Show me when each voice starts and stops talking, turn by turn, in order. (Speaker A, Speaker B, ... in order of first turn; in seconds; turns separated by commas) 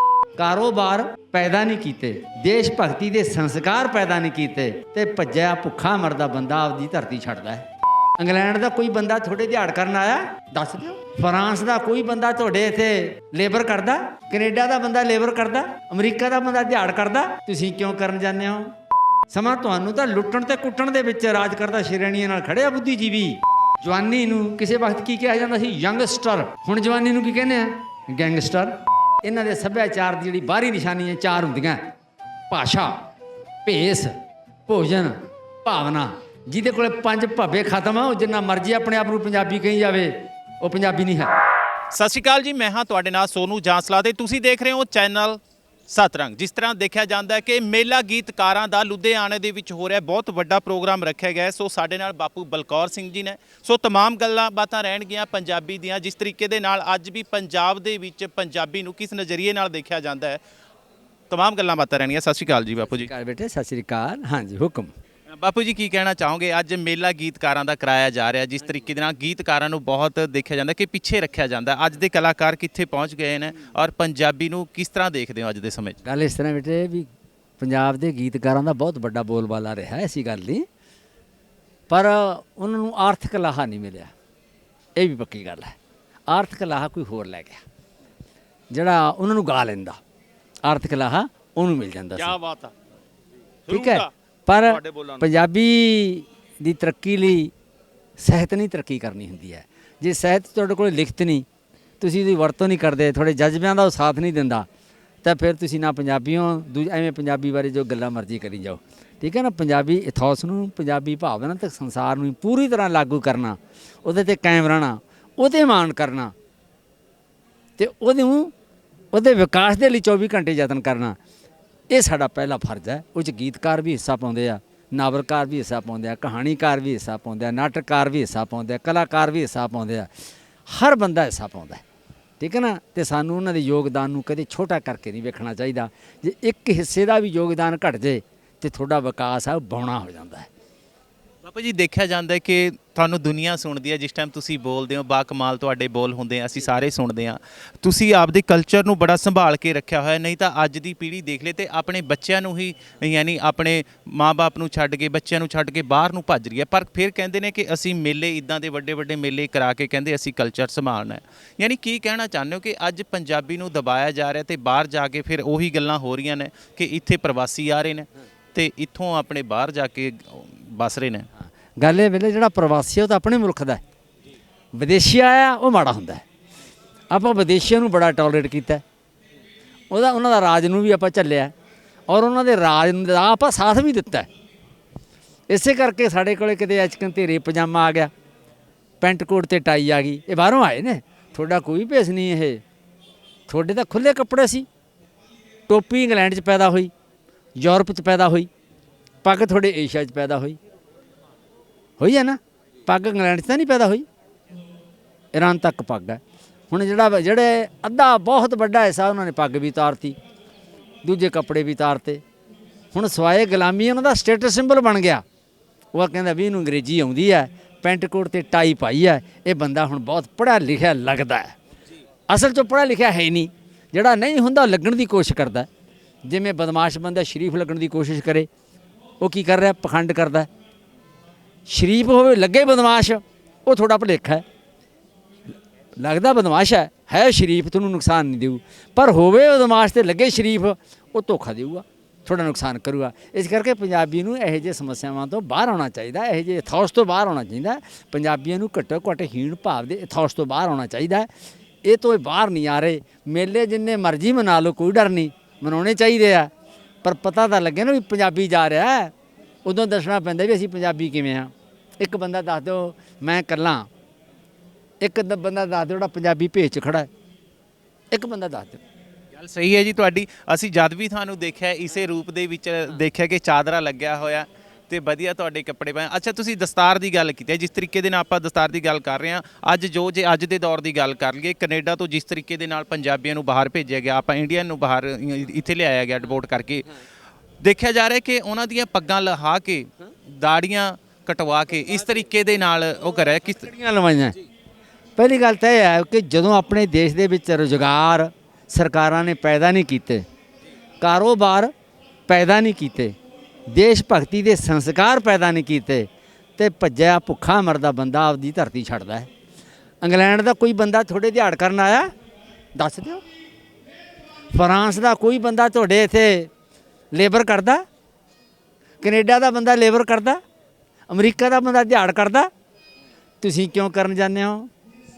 Speaker A: 0.4-7.7, Speaker A: 8.2-18.7, Speaker A: 19.3-31.9, Speaker A: 32.5-33.1, Speaker A: 33.6-34.1, Speaker A: 34.7-41.3, Speaker B: 41.9-60.4, Speaker B: 61.3-63.1, Speaker A: 62.9-64.9, Speaker B: 65.4-76.0, Speaker A: 76.0-77.1, Speaker A: 77.6-80.7, Speaker A: 81.9-84.1, Speaker A: 85.0-85.8, Speaker A: 86.3-87.6, Speaker A: 88.7-90.0, Speaker A: 90.7-92.4, Speaker B: 92.2-92.7, Speaker B: 93.7-94.1, Speaker A: 93.7-97.5, Speaker B: 94.7-95.2, Speaker A: 98.2-101.5, Speaker A: 102.0-104.7, Speaker A: 105.2-116.3, Speaker A: 117.8-118.5, Speaker A: 119.1-121.2, Speaker A: 121.9-130.1, Speaker A: 130.7-131.8, Speaker A: 132.4-140.5, Speaker B: 141.4-171.3, Speaker A: 171.4-173.8, Speaker A: 174.8-176.2, Speaker A: 177.1-178.8, Speaker A: 179.9-181.5, Speaker A: 182.1-184.3, Speaker A: 185.5-188.1, Speaker A: 189.0-192.6, Speaker A: 193.5-194.7, Speaker A: 195.7-196.9, Speaker A: 197.6-198.5, Speaker A: 199.2-200.6, Speaker A: 202.0-204.1, Speaker A: 205.3-210.2, Speaker A: 211.0-212.2, Speaker A: 212.9-215.2, Speaker A: 215.9-221.6, Speaker A: 222.3-225.7, Speaker A: 226.3-228.5, Speaker A: 229.2-230.5, Speaker A: 231.7-234.4, Speaker A: 236.0-251.3, Speaker A: 251.9-256.5, Speaker A: 257.0-259.1, Speaker A: 259.7-263.9, Speaker A: 265.0-267.1, Speaker A: 268.1-268.8, Speaker B: 269.3-286.9, Speaker B: 287.6-293.7, Speaker A: 293.6-294.4, Speaker A: 295.2-300.2, Speaker A: 301.0-301.7, Speaker A: 302.3-303.1, Speaker A: 303.7-309.3, Speaker A: 310.0-312.1, Speaker A: 312.8-313.2, Speaker A: 314.5-316.5, Speaker A: 317.1-317.8, Speaker A: 319.0-320.4, Speaker A: 321.1-322.5, Speaker A: 323.4-324.7